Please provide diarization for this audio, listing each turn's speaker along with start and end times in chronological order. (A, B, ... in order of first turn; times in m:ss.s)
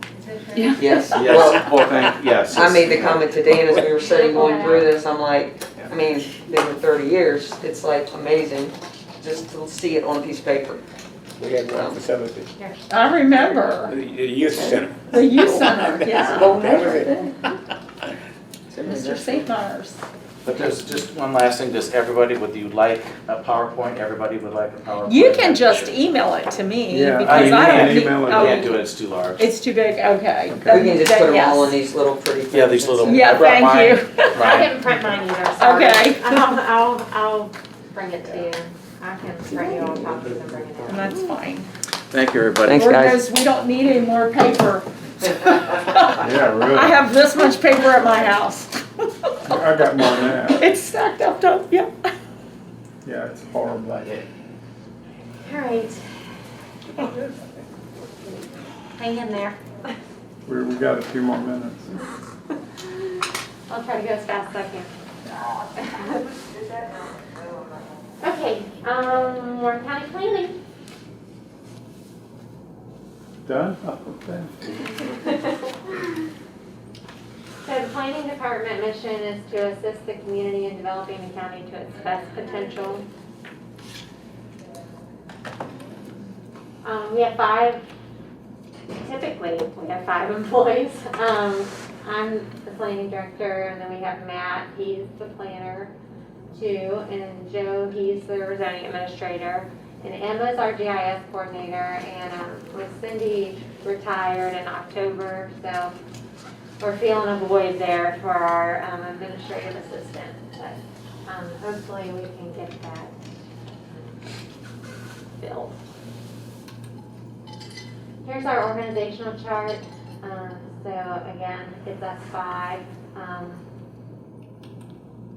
0:00.1-0:01.0 A
0:00.5-0:01.3 B
0:00.7-0:01.7 C
0:01.1-0:03.7 D
0:02.5-0:10.8 C
0:04.0-0:05.0 A
0:11.4-0:12.5 E
0:11.7-0:12.0 C
0:12.6-0:13.0 A
0:12.9-0:14.0 B
0:13.9-0:17.2 E
0:14.6-0:17.4 C
0:15.1-0:17.3 B
0:18.7-0:19.4 C
0:18.8-0:20.0 B
0:20.4-0:25.9 D
0:25.0-0:31.8 B
0:26.9-0:28.7 F
0:27.2-0:29.5 D
0:30.5-0:30.9 F
0:30.7-0:33.4 C
0:32.5-0:34.7 D
0:33.0-0:34.6 B
0:34.3-0:41.2 A
0:35.6-0:36.5 B
0:40.8-0:41.7 B
0:42.1-0:42.8 D
0:42.7-0:43.2 C
0:42.7-0:52.1 B
0:46.2-0:47.0 F
0:49.4-0:50.6 F
0:53.0-0:54.1 F
0:53.9-0:54.2 D
0:55.4-0:56.0 A
0:59.0-0:59.8 A
1:00.4-1:02.0 F
1:03.7-1:04.9 A
1:05.8-1:08.0 C
1:05.9-1:06.1 A
1:08.2-1:10.6 A
1:13.4-1:15.0 F
1:17.6-1:23.0 A
1:26.8-1:27.8 A
1:29.0-1:35.9 A
1:36.5-1:45.9 A
1:46.8-1:53.1 A
1:53.9-1:54.2 A
1:55.4-1:55.8 A
1:58.2-2:03.6 A